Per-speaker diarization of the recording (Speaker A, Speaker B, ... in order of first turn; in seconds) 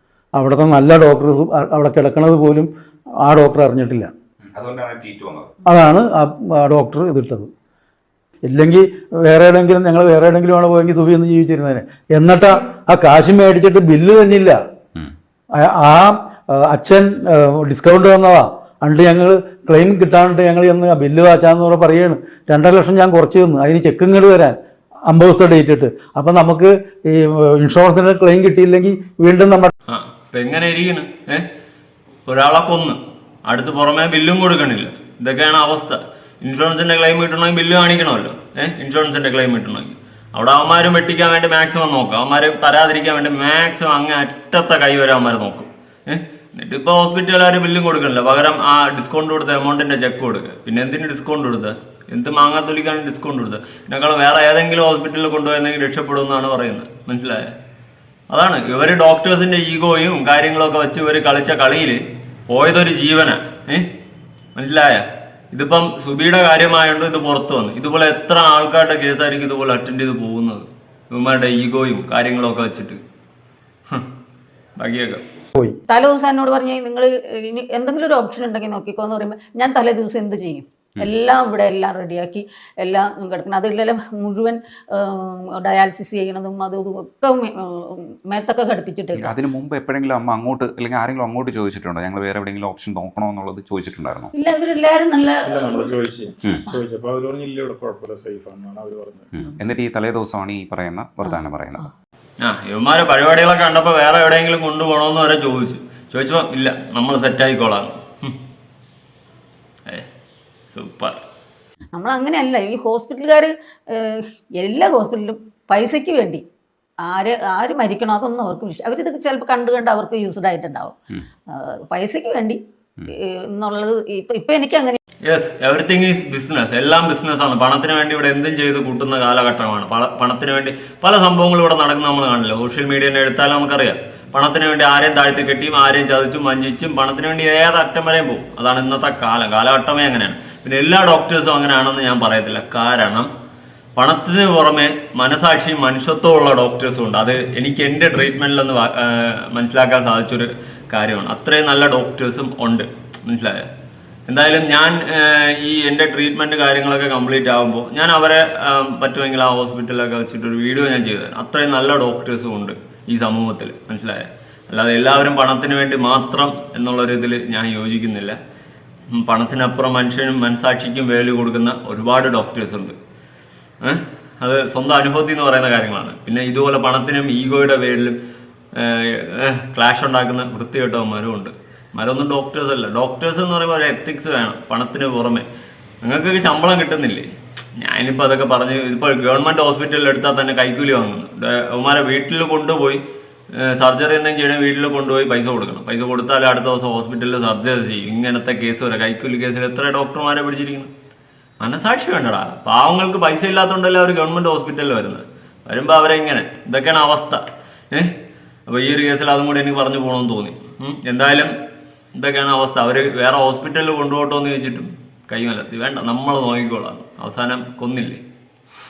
Speaker A: 0.3-4.1, 5.6-7.5, 8.4-14.6, 15.5-29.7
Speaker B: 4.4-5.5, 89.2-94.3, 99.3-101.8
Speaker C: 29.9-31.4, 32.3-57.5, 58.3-63.9, 64.5-73.0, 74.8-75.2, 102.4-108.3, 110.7-111.2, 125.2-143.3, 143.9-153.7, 154.3-168.4, 169.1-172.9, 173.8-178.2, 178.7-185.4, 186.0-193.0, 193.6-200.9, 201.6-207.4, 208.7-211.5, 212.1-218.2
Speaker D: 75.9-89.3, 94.3-95.9, 111.9-116.4, 117.0-121.0, 121.5-122.6, 123.1-125.0
Speaker E: 95.4-99.3